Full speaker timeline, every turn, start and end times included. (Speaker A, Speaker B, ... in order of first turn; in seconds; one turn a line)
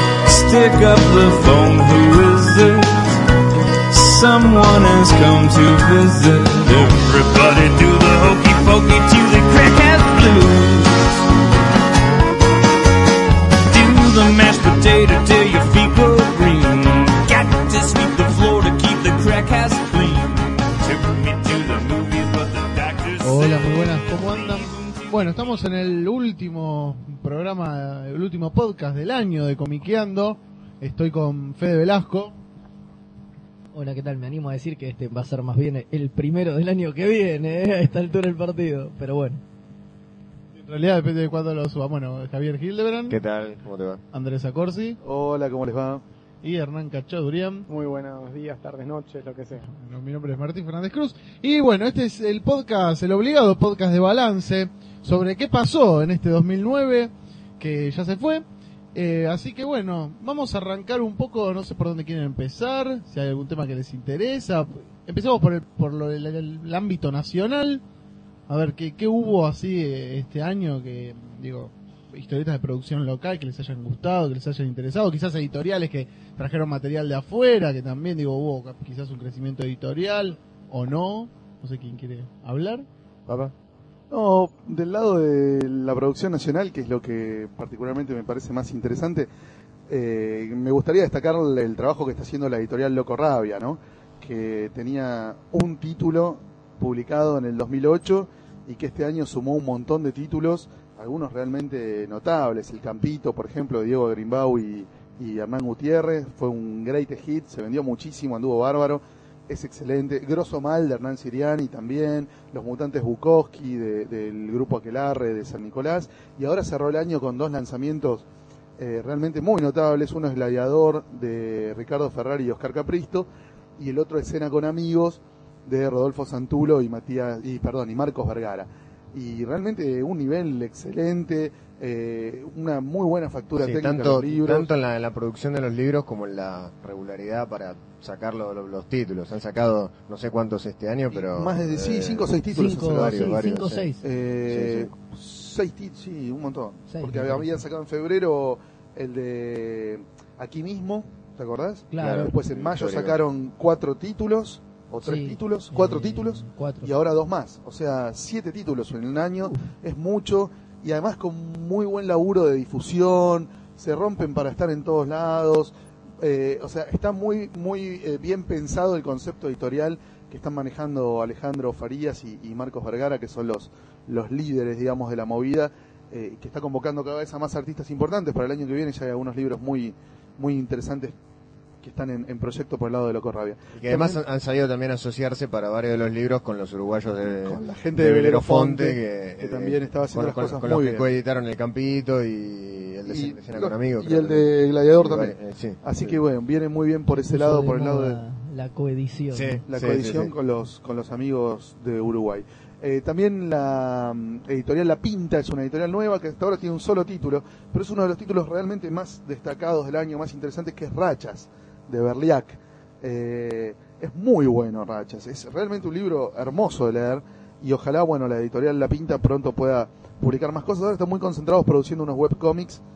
Speaker A: 0.2-3.2
Speaker A: 3.9-11.2
Speaker A: 13.6-25.0
Speaker B: 23.2-32.4
Speaker C: 33.7-39.4
Speaker B: 40.6-43.2
Speaker D: 43.1-44.0
Speaker B: 44.1-45.0
Speaker E: 45.0-46.0
Speaker B: 46.4-47.7
Speaker F: 47.7-49.6
Speaker B: 49.6-67.8
Speaker B: 68.5-82.9
Speaker E: 84.1-89.3
Speaker E: 89.9-118.3
Speaker E: 118.8-123.3
Speaker E: 123.8-134.7
Speaker D: 133.6-143.9
Speaker E: 141.1-143.4
Speaker C: 142.5-144.0
Speaker E: 144.0-181.2
Speaker D: 144.5-144.9
Speaker C: 146.9-147.5
Speaker C: 151.9-152.3
Speaker D: 152.0-153.2
Speaker C: 155.0-156.9
Speaker E: 181.8-184.2
Speaker D: 183.7-196.2
Speaker E: 187.4-191.1
Speaker E: 193.1-198.2
Speaker C: 197.3-199.6
Speaker D: 199.3-200.3
Speaker E: 199.7-222.8